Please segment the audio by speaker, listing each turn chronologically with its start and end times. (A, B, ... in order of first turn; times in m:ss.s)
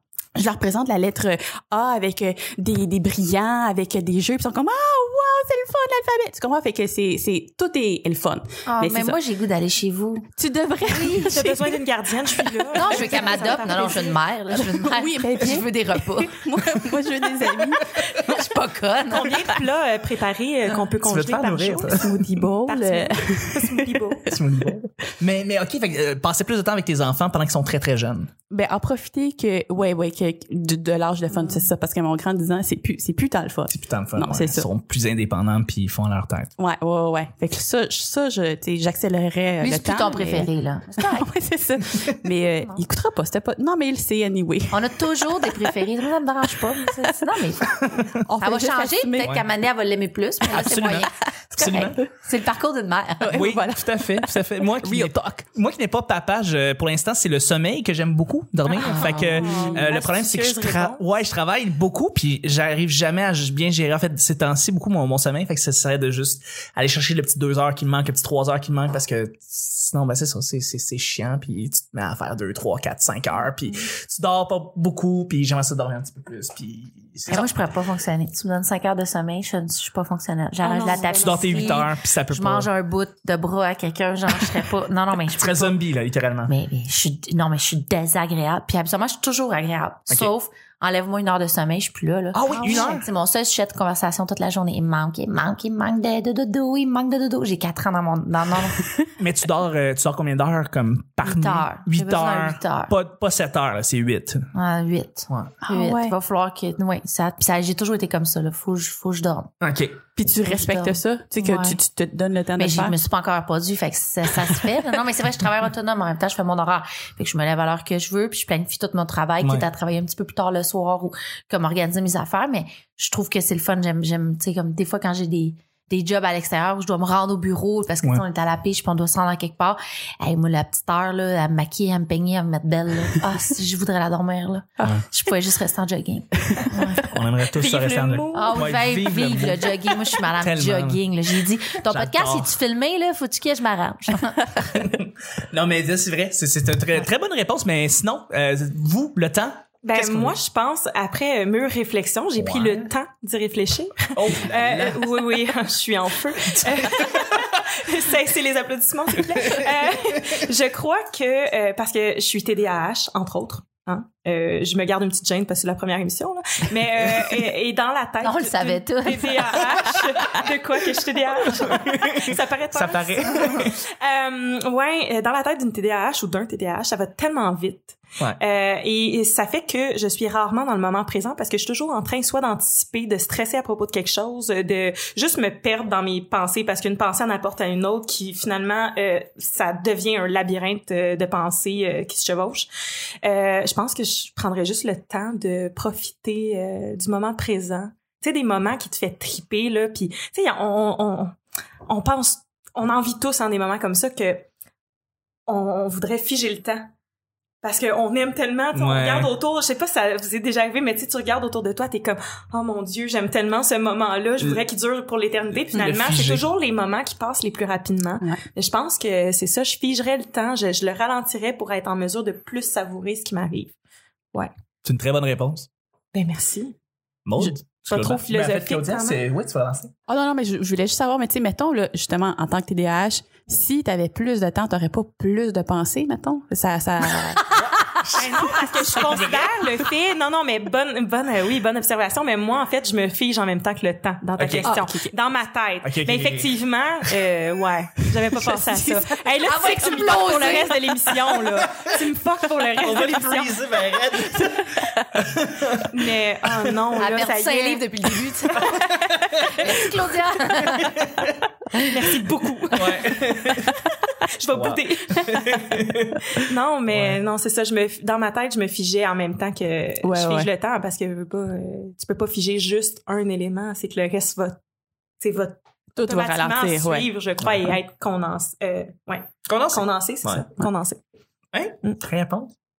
0:00.4-0:09.2 A
0:08.7-0:10.3 B
0:10.4-0:13.9 A
0:10.9-0:11.4 B
0:11.3-0:14.2 C
0:12.7-0:16.4 B
0:14.5-0:18.0 A
0:18.0-0:19.5 B
0:19.1-0:22.1 C
0:21.0-0:22.2 D
0:21.9-0:24.5 A
0:22.7-0:24.3 C
0:24.3-0:28.3 D
0:28.5-0:34.7 A
0:33.7-0:36.5 D
0:36.6-0:45.8 A
0:39.6-0:41.3 B
0:44.7-0:47.8 B
0:46.6-0:47.4 A
0:47.7-0:48.2 D
0:48.2-0:49.4 A
0:48.4-0:53.5 B
0:49.2-0:49.5 D
0:50.5-0:52.0 D
0:53.2-0:55.4 A
0:53.3-1:17.5 D
0:58.7-1:01.0 C
0:58.9-0:59.9 A
1:17.3-1:25.8 B
1:20.6-1:21.8 C
1:21.2-1:22.7 D
1:25.3-1:26.5 D
1:26.5-1:38.9 B
1:32.3-1:33.1 D
1:39.2-1:44.5 D
1:41.2-1:42.9 B
1:44.5-1:49.5 B
1:45.6-1:46.2 A
1:49.6-1:50.0 D
1:50.2-1:53.0 A
1:50.4-1:51.8 B
1:52.6-2:17.1 B
1:59.4-1:59.7 D
2:17.0-2:21.0 D
2:17.5-2:18.7 C
2:18.3-2:24.7 B
2:21.8-2:22.5 D
2:24.6-2:30.4 D
2:29.8-3:12.7 C
2:32.4-2:32.9 D
2:34.1-2:35.1 D
2:36.5-2:37.5 D
2:39.3-2:40.4 D
2:48.2-2:49.6 B
2:51.5-2:53.8 D
3:13.2-3:21.4 C
3:21.9-3:24.5 C
3:25.5-3:26.9 C
3:27.6-3:43.7 C
3:28.7-3:29.3 D
3:35.6-3:36.4 D
3:44.8-3:45.7 D
3:46.1-3:46.8 C
3:47.3-3:49.9 D
3:47.9-3:49.2 C
3:50.1-3:57.5 A
3:57.6-3:59.5 D
3:58.1-4:13.6 C
4:04.4-4:04.8 D
4:04.6-4:05.1 A
4:05.8-4:06.5 D
4:08.3-4:09.3 A
4:09.4-4:10.8 B
4:12.8-4:16.5 D
4:14.3-4:15.0 A
4:15.9-4:17.9 C
4:17.0-4:18.9 B
4:18.6-4:20.0 D
4:19.6-4:21.0 B
4:20.6-4:21.3 D
4:21.8-4:23.7 C
4:22.7-4:23.8 D
4:24.4-4:25.8 C
4:24.5-4:27.2 D
4:26.4-4:34.6 C
4:30.0-4:30.5 A
4:35.2-4:41.0 C
4:36.0-4:37.1 A
4:39.5-4:40.4 D
4:41.5-4:42.5 D